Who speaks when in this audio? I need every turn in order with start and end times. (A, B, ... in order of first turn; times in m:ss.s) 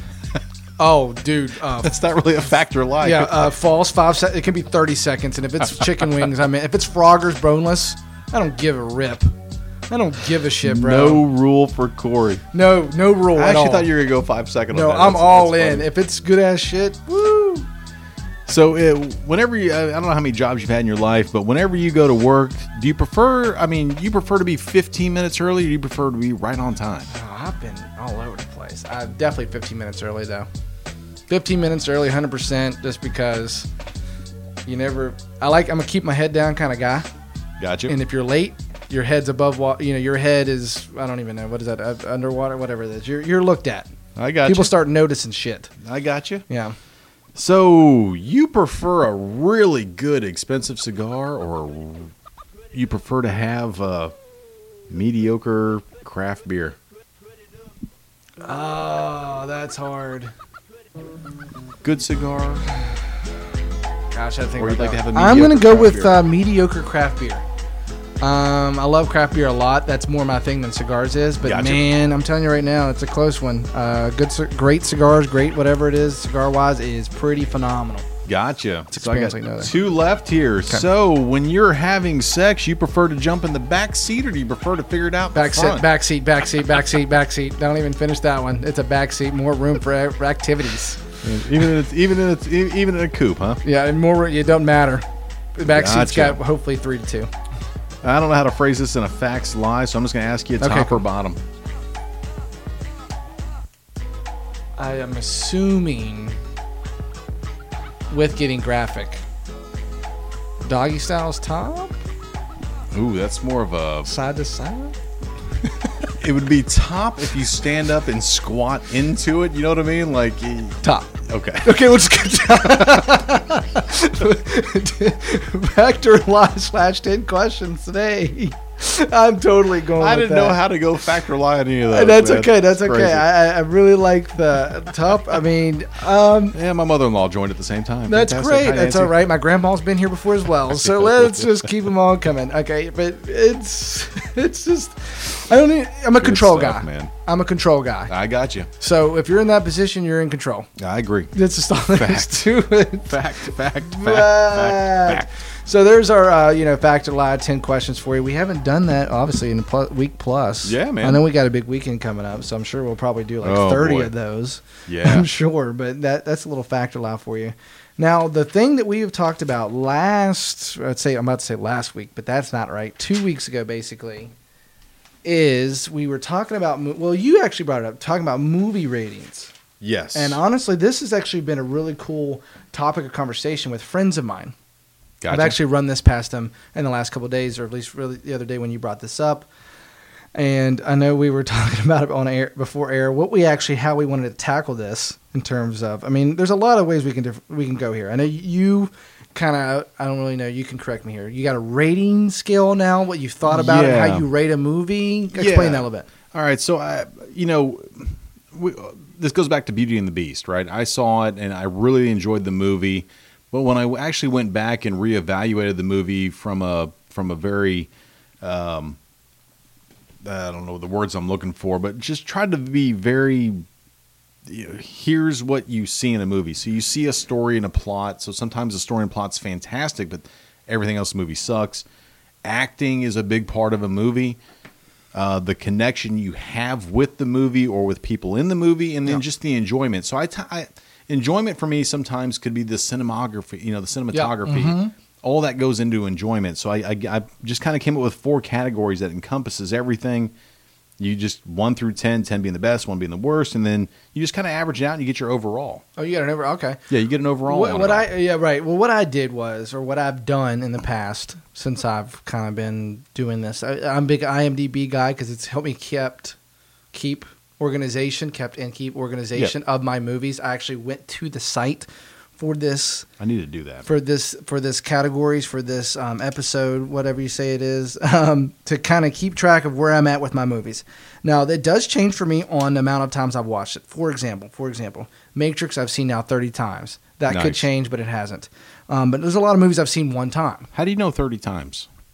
0:00.8-0:02.0 A
0:01.8-0:03.5 B
0:03.0-0:09.3 A
0:09.9-0:11.2 A
0:10.6-0:12.4 B
0:12.5-0:13.9 A
0:13.4-0:15.9 B
0:14.7-0:17.7 A
0:18.5-0:27.1 B
0:27.1-0:30.5 A
0:31.3-0:33.7 A
0:34.7-0:37.1 A
0:37.6-0:38.0 B
0:37.9-0:43.9 A
0:44.2-0:44.7 B
0:44.4-0:45.7 A
0:45.8-0:46.4 B
0:46.5-0:46.8 A
0:47.4-0:52.1 B
0:52.7-0:54.1 B
0:54.9-0:56.8 B
0:58.4-1:00.3 A
1:01.8-1:02.7 B
1:04.1-1:07.4 A
1:04.6-1:06.2 B
1:08.2-1:18.1 A
1:11.4-1:11.9 B
1:18.3-1:25.9 B
1:18.9-1:19.7 A
1:25.3-1:31.2 A
1:31.2-1:33.6 B
1:33.6-1:35.0 A
1:35.6-1:37.3 A
1:35.7-1:36.4 B
1:38.0-1:41.4 B
1:40.6-1:41.0 A
1:44.8-1:46.4 A
1:48.1-1:49.2 A
1:50.7-1:52.0 A
1:52.9-1:54.1 B
1:54.1-1:55.0 A
1:55.7-1:56.1 A
1:56.2-2:01.9 B
2:00.8-2:10.6 A
2:02.5-2:03.2 B
2:10.0-2:13.3 B
2:11.9-2:16.6 A
2:16.5-2:19.2 B
2:18.1-2:28.1 A
2:20.7-2:21.7 B
2:26.2-2:27.1 B
2:28.1-2:28.7 B
2:28.8-2:30.7 A
2:30.8-2:31.3 B
2:31.3-2:33.2 A
2:31.9-2:32.5 B
2:33.1-2:35.3 B
2:33.8-2:54.3 A
2:40.6-2:41.2 B
2:43.4-2:44.1 B
2:44.9-2:45.3 B
2:55.2-2:59.5 A
2:59.8-3:00.4 B
3:00.2-3:04.6 A
3:05.2-3:05.6 B
3:05.3-3:09.5 A
3:10.4-3:26.1 A
3:23.5-3:24.3 B
3:25.3-3:37.9 B
3:38.4-3:39.0 B
3:40.2-3:43.6 B
3:44.5-3:51.8 B
3:52.4-3:54.4 B
3:55.1-4:10.3 B
4:04.1-4:04.9 A
4:11.0-4:15.8 B
4:16.0-4:16.8 A
4:16.9-4:18.1 B
4:17.5-4:26.4 A
4:26.9-4:33.1 A
4:33.2-4:33.9 B
4:33.8-4:50.7 A
4:47.3-4:47.7 B
4:50.7-4:51.9 B